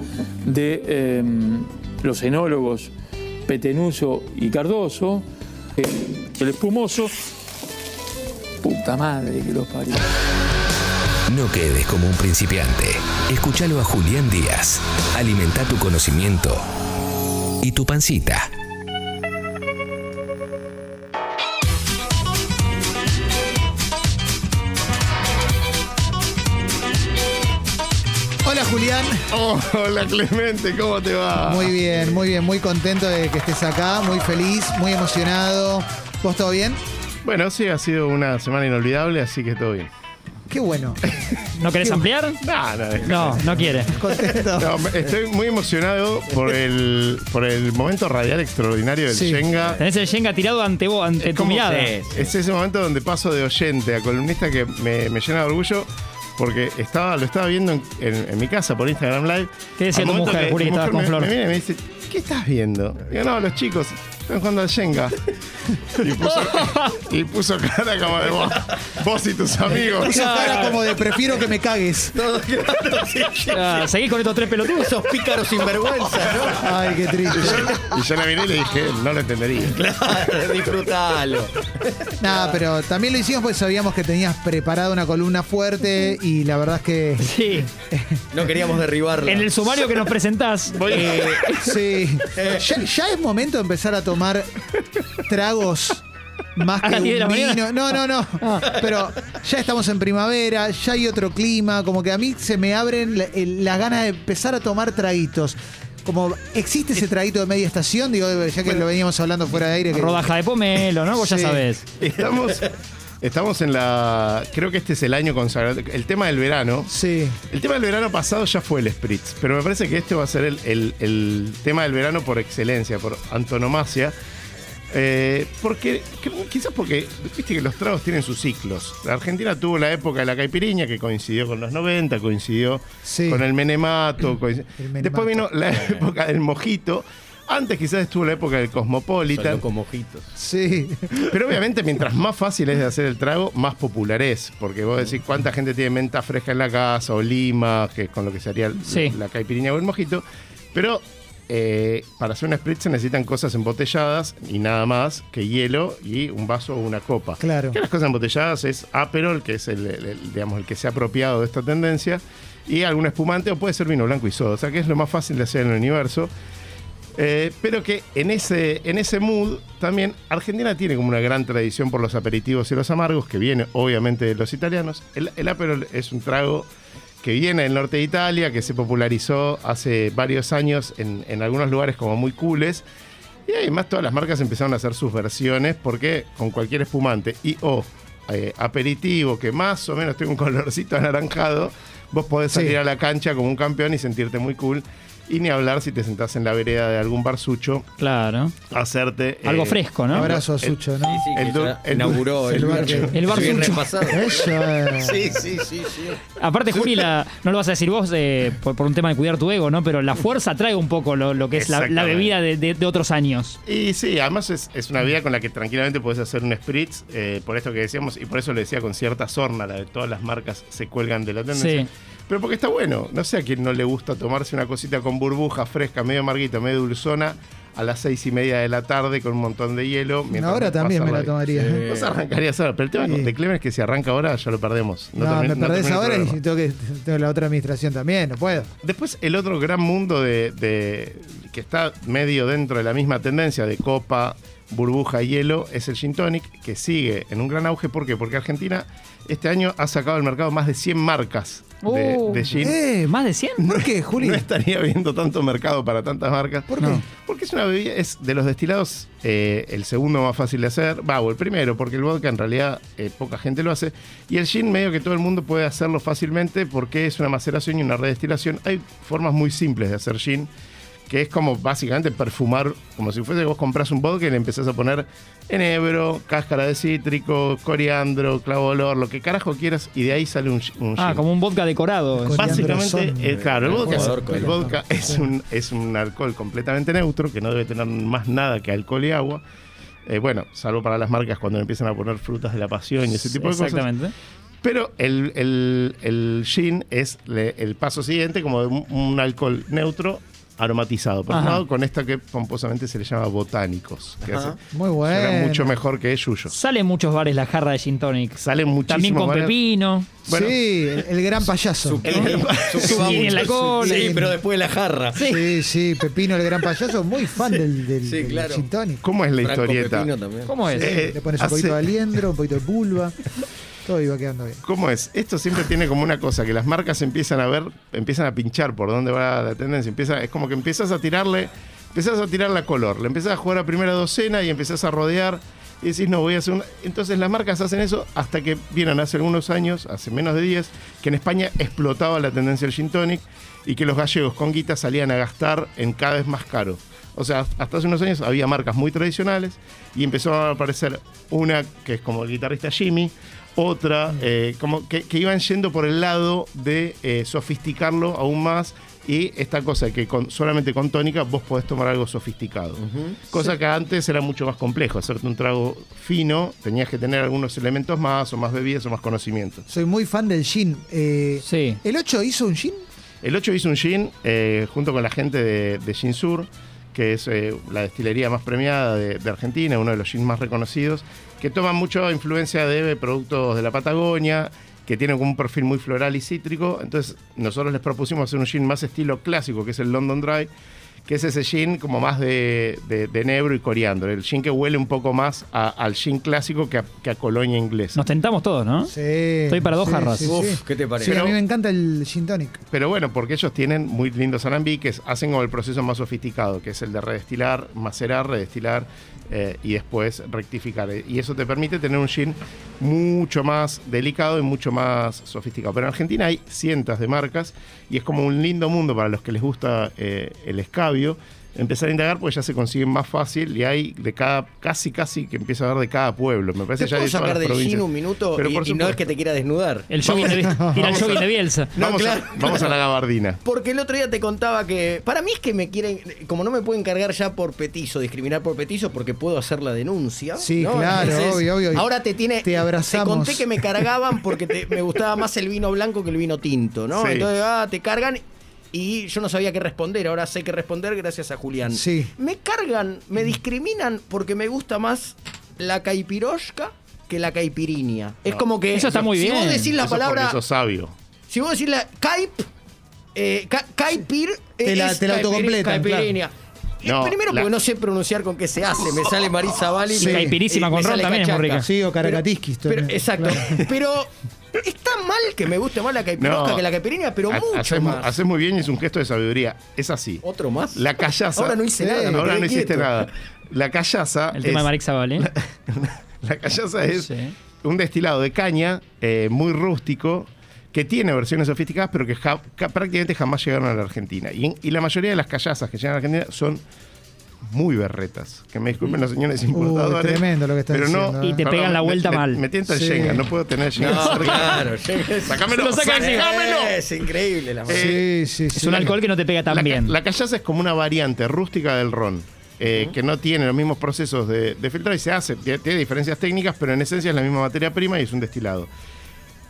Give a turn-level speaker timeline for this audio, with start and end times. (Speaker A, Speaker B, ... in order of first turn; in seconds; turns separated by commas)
Speaker A: 0.4-2.9, Speaker A: 3.5-5.2, Speaker A: 5.8-7.1, Speaker A: 8.6-10.1, Speaker B: 11.3-16.6, Speaker B: 17.6-18.5, Speaker C: 28.4-29.2, Speaker D: 29.3-31.7, Speaker C: 31.4-36.8, Speaker D: 37.2-39.9, Speaker C: 40.5-41.0, Speaker D: 41.1-41.5, Speaker E: 41.5-42.4, Speaker C: 41.8-42.0, Speaker D: 42.4-43.7, Speaker E: 43.0-43.9, Speaker C: 43.4-44.7, Speaker D: 44.4-49.8, Speaker C: 49.1-49.4, Speaker E: 49.8-51.9, Speaker D: 51.2-65.1, Speaker F: 51.6-52.3, Speaker E: 59.8-61.3, Speaker D: 65.9-70.3, Speaker E: 66.2-67.0, Speaker C: 70.0-72.2, Speaker E: 70.0-70.8, Speaker F: 71.1-73.8, Speaker E: 73.5-74.9, Speaker F: 74.8-76.7, Speaker C: 76.5-77.7, Speaker F: 77.3-77.8, Speaker D: 77.4-79.8, Speaker F: 79.7-82.6, Speaker C: 82.2-88.2, Speaker E: 87.2-87.7, Speaker F: 88.3-89.7, Speaker E: 89.3-91.6, Speaker D: 90.8-91.3, Speaker F: 90.8-91.4, Speaker C: 91.6-94.5, Speaker F: 92.3-92.7, Speaker C: 95.2-96.0, Speaker C: 96.5-110.2, Speaker E: 96.8-98.7, Speaker E: 109.9-111.8, Speaker C: 111.1-111.7, Speaker D: 112.0-116.9, Speaker C: 116.9-117.4, Speaker D: 117.5-124.1, Speaker D: 124.9-139.6, Speaker C: 133.0-133.4, Speaker C: 134.8-135.5, Speaker F: 135.8-136.1, Speaker F: 139.3-140.3, Speaker C: 140.3-141.3, Speaker D: 141.2-150.2, Speaker E: 148.8-149.1, Speaker D: 150.7-166.3, Speaker C: 157.4-157.8, Speaker D: 167.2-176.7, Speaker D: 177.2-182.8, Speaker D: 183.5-197.9, Speaker C: 192.5-192.8, Speaker E: 198.0-198.6, Speaker D: 198.7-200.8, Speaker E: 199.4-200.3, Speaker C: 200.1-201.2, Speaker F: 201.0-206.2, Speaker D: 201.3-203.2, Speaker C: 202.1-205.3, Speaker E: 203.1-203.9, Speaker E: 206.4-213.6, Speaker D: 211.6-212.3, Speaker D: 213.7-231.3, Speaker E: 221.5-221.9, Speaker C: 230.3-231.8, Speaker F: 231.5-232.2, Speaker D: 231.9-236.4, Speaker C: 233.0-233.3, Speaker C: 235.2-238.7, Speaker D: 238.8-252.7, Speaker E: 251.8-253.6, Speaker C: 252.6-253.1, Speaker D: 253.6-270.5, Speaker C: 253.7-254.4, Speaker C: 256.7-257.0, Speaker D: 271.1-281.2, Speaker E: 281.0-282.6, Speaker C: 282.1-285.2, Speaker D: 282.3-289.4, Speaker F: 283.3-284.8, Speaker D: 290.1-293.9, Speaker E: 293.1-294.1, Speaker D: 294.6-306.5, Speaker E: 301.3-301.6, Speaker F: 304.2-304.6, Speaker C: 304.7-305.7, Speaker E: 306.5-310.1, Speaker D: 308.4-309.6, Speaker D: 310.2-310.6, Speaker C: 310.3-312.3, Speaker F: 311.8-315.2, Speaker D: 312.0-313.5, Speaker E: 312.1-314.1, Speaker C: 312.8-314.4, Speaker E: 315.1-315.6, Speaker C: 315.2-319.0, Speaker F: 317.4-318.6, Speaker D: 319.0-320.1, Speaker F: 319.4-320.6, Speaker E: 320.4-320.9, Speaker C: 320.6-324.6, Speaker D: 320.8-321.9, Speaker D: 324.6-369.6, Speaker F: 362.8-363.2, Speaker C: 369.7-372.8, Speaker E: 371.4-371.8, Speaker D: 373.2-390.5, Speaker D: 391.1-398.0, Speaker E: 397.9-398.9, Speaker C: 398.9-402.6, Speaker E: 399.5-400.3, Speaker F: 400.2-401.3, Speaker D: 401.0-401.3, Speaker D: 402.7-429.0, Speaker F: 426.7-429.9, Speaker E: 429.9-431.7, Speaker D: 430.0-433.4, Speaker C: 430.4-430.8, Speaker F: 430.9-431.2, Speaker F: 431.7-432.8, Speaker F: 433.4-460.4, Speaker C: 440.4-441.9, Speaker C: 442.4-443.6, Speaker D: 446.9-447.3, Speaker C: 451.7-452.1, Speaker E: 458.7-459.7, Speaker D: 459.8-460.9, Speaker F: 461.3-462.5, Speaker F: 463.1-478.2, Speaker C: 464.6-466.1, Speaker D: 466.8-467.5, Speaker C: 470.0-470.4, Speaker E: 470.0-471.7, Speaker C: 471.6-473.5, Speaker D: 476.2-476.7, Speaker D: 477.3-480.2, Speaker F: 480.2-483.1, Speaker D: 480.7-496.6, Speaker C: 481.8-482.3, Speaker E: 484.3-485.3, Speaker E: 486.9-487.3, Speaker D: 497.5-504.6, Speaker C: 499.5-501.4, Speaker E: 501.2-502.4, Speaker C: 502.6-503.3, Speaker F: 503.8-508.0, Speaker E: 503.8-504.6, Speaker D: 505.2-506.8, Speaker E: 505.5-506.2, Speaker D: 507.7-508.9, Speaker C: 507.7-508.9, Speaker E: 508.5-509.9, Speaker D: 509.5-518.7, Speaker F: 512.7-512.9